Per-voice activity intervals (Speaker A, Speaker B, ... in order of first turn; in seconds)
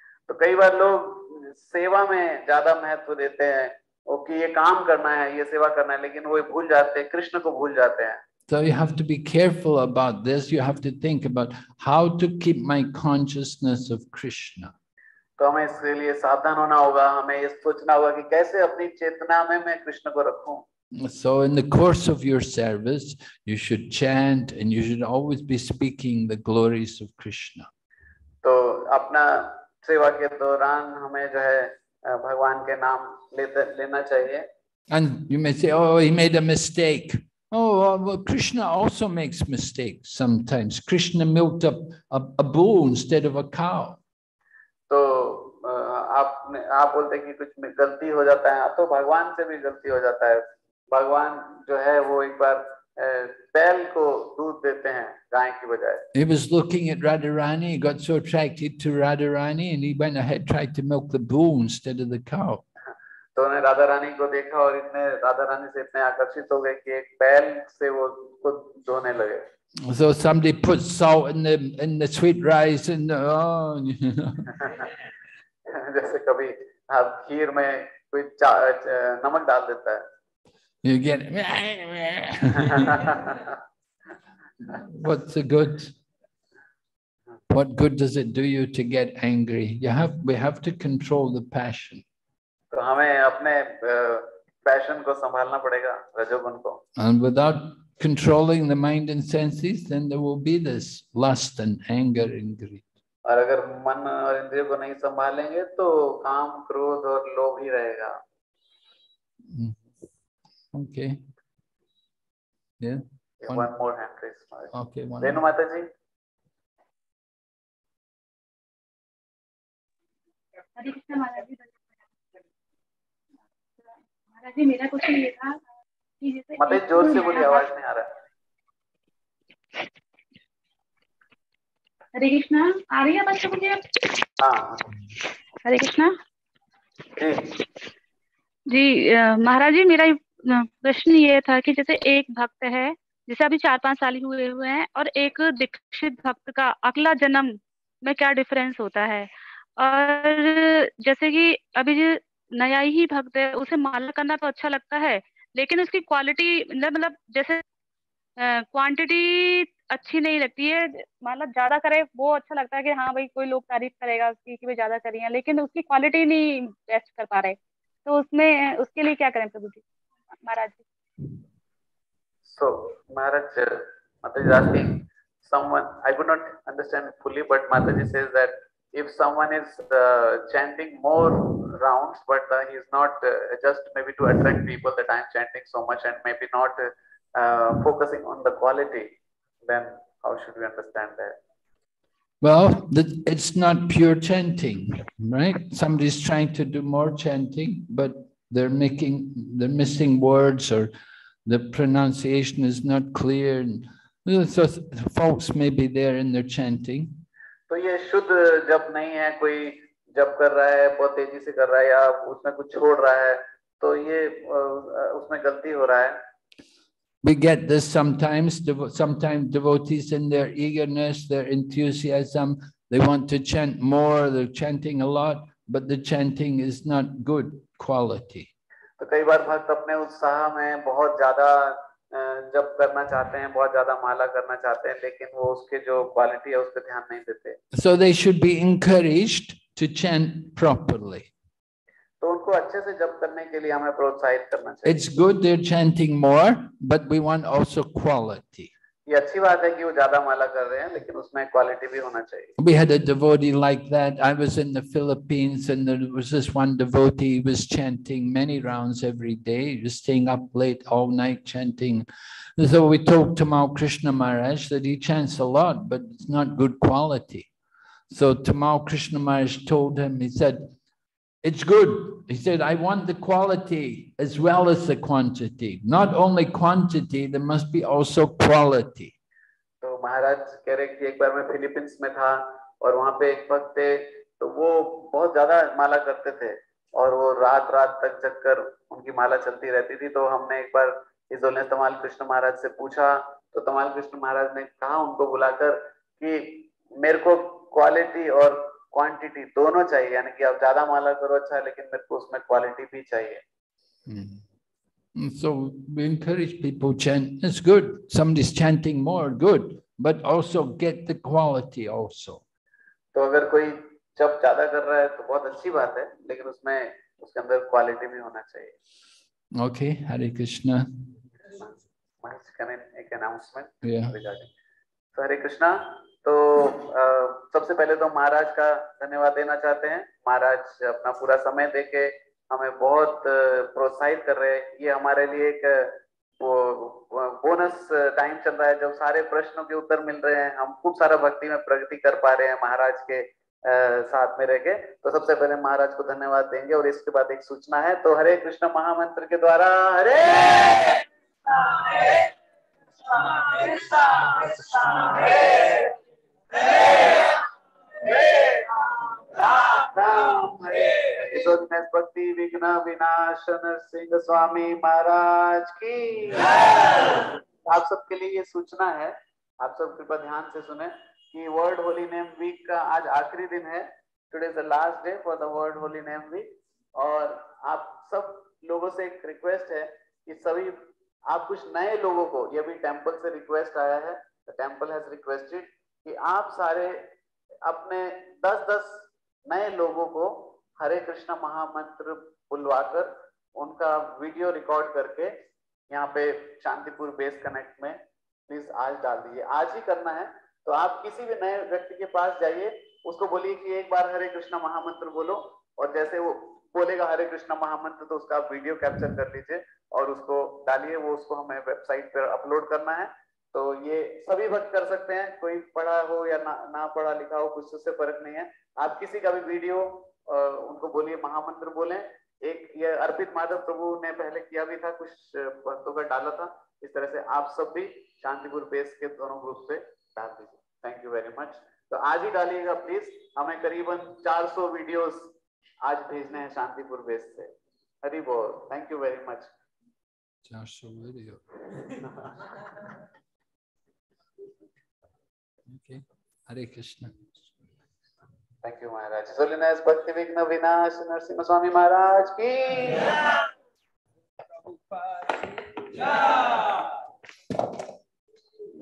Speaker A: 0.3-8.2, 15.4-20.6, 28.4-34.5, 44.9-56.0, 63.4-69.4, 75.7-80.0, 82.7-83.5, 92.7-96.8, 103.2-108.2, 113.4-115.9, 126.6-128.1, 134.4-134.9, 137.2-137.6, 172.5-189.1, 189.6-191.4, 207.7-216.2, 229.0-237.6, 242.2-245.0, 249.1-252.5, 279.8-303.4, 313.1-318.7, 321.5-324.5, 325.1-352.3, 353.1-355.9, 356.7-357.3, 358.0-387.0, 387.6-395.4, 395.9-435.3, 435.8-437.5, 438.0-439.5, 448.6-453.2
Speaker B: 8.5-14.7, 20.9-27.7, 34.9-44.0, 56.1-62.6, 69.8-74.5, 80.8-83.1, 84.7-85.9, 87.5-92.0, 97.0-102.9, 109.5-109.8, 110.7-111.2, 112.8-113.7, 114.7-115.4, 192.4-200.9, 201.4-207.2, 217.2-228.5, 237.7-241.3, 244.8-248.7, 252.6-262.1, 262.6-267.5, 268.1-270.7, 271.4-279.1, 304.1-304.4, 305.1-312.4, 319.6-320.9, 323.8-324.1, 440.4-441.4, 445.7-447.4
Speaker C: 120.7-121.8, 123.8-125.6, 126.2-127.7, 132.1-133.9, 135.6-136.1, 138.7-157.6, 158.4-169.8, 170.4-170.8